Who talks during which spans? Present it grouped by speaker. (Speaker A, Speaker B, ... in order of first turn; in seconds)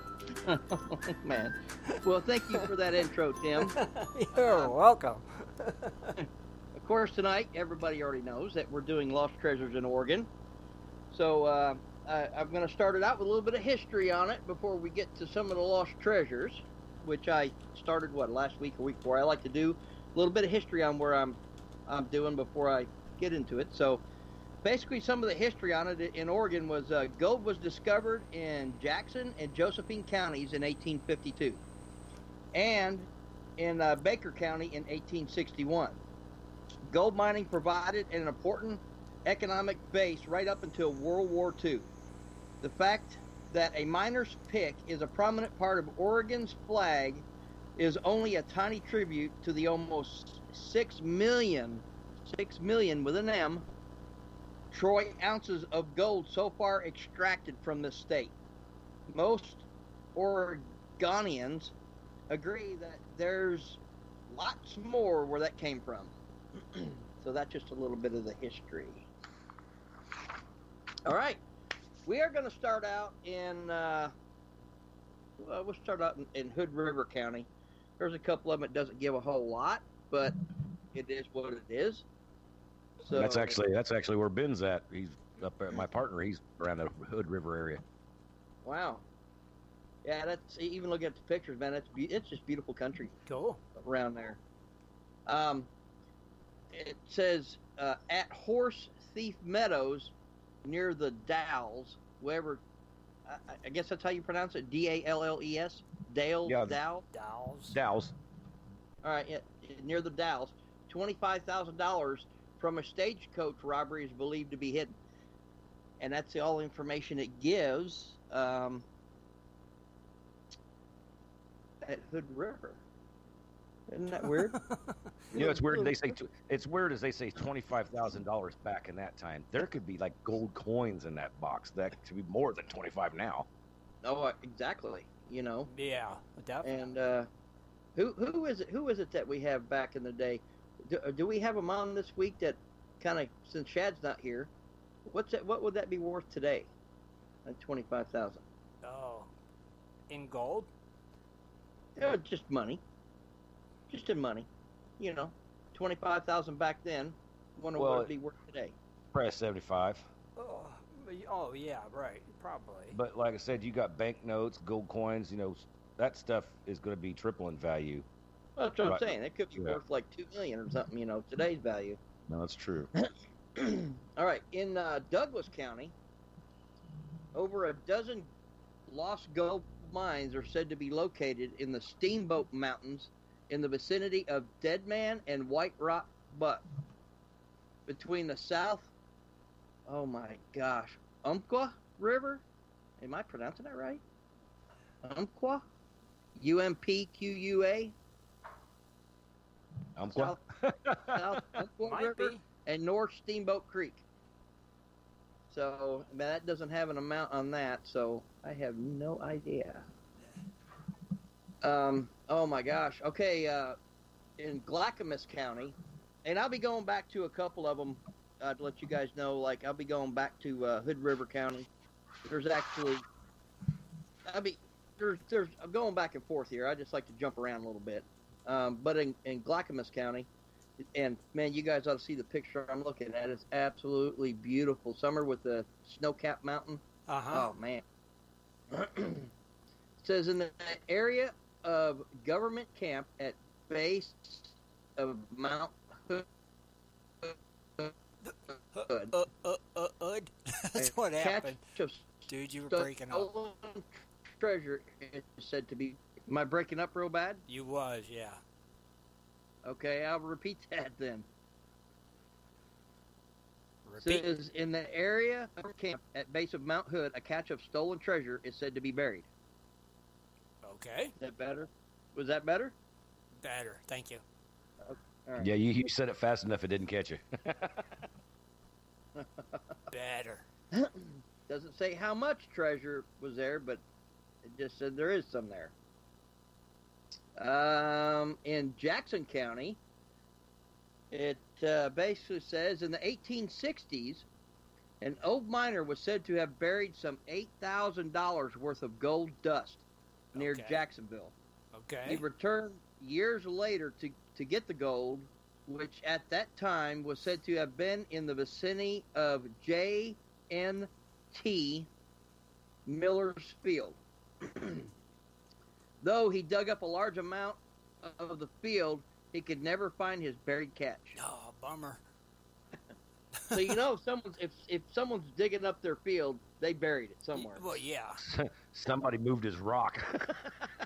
Speaker A: 0.4-3.8, 4.3-4.7, 6.2-10.3, 11.1-24.0, 24.6-31.6, 32.5-36.0, 36.9-41.9, 42.6-47.2, 47.8-53.6, 54.7-58.3, 59.1-61.7, 62.3-66.1, 66.7-69.1, 71.1-71.4, 72.0-74.1, 75.4-77.5, 78.0-80.4, 80.9-82.0, 83.0-83.6, 88.6-89.0, 90.0-93.1, 93.8-94.4, 95.3-95.7, 96.7-100.1, 100.6-102.6, 103.3-107.0, 109.0-114.9, 116.0-118.8, 121.8-122.8, 123.9-124.5, 125.3-126.1, 134.0-135.7, 136.6-137.3, 138.0-144.5, 145.1-146.7, 147.4-148.4, 152.0-152.8, 153.9-154.5, 155.0-158.8, 168.6-172.0, 173.0-175.9, 177.3-178.3, 178.9-186.6, 187.9-188.9, 189.9-192.4, 193.0-194.0, 195.0-195.7, 196.4-197.9, 200.1-200.4, 201.0-204.0, 205.5-209.8, 211.6-213.8, 214.4-221.7, 222.3-223.1, 224.3-230.3, 230.8-237.8, 238.7-239.3, 240.0-246.3, 247.2-247.9, 248.9-249.1, 250.8-257.4, 259.6-261.3, 264.0-269.3, 271.2-272.7, 274.8-275.5, 279.2-279.6, 280.7-283.8, 284.4-285.7, 287.4-289.8, 291.1-294.2, 295.0-299.8, 300.3-301.3, 302.1-311.9, 312.9-314.9, 316.0-321.2, 323.5-327.8
Speaker B: 3.6-6.2, 93.3-93.6, 107.1-107.8, 124.2-125.0, 135.7-136.8, 148.8-149.3, 150.1-150.7, 160.4-163.0, 201.8-202.4, 237.1-237.5, 248.2-251.6, 252.3-253.3, 257.5-258.4, 263.9-264.3, 270.6-271.1, 273.4-274.2, 279.9-280.5, 300.3-300.8, 301.7-302.2, 321.2-322.0, 327.4-328.2
Speaker C: 83.1-87.8, 106.5-106.8, 107.7-108.2, 125.3-133.5, 157.8-158.1, 159.1-160.1, 162.9-168.1, 168.8-169.8, 172.3-172.9, 200.0-201.3, 275.4-277.9, 328.2-330.6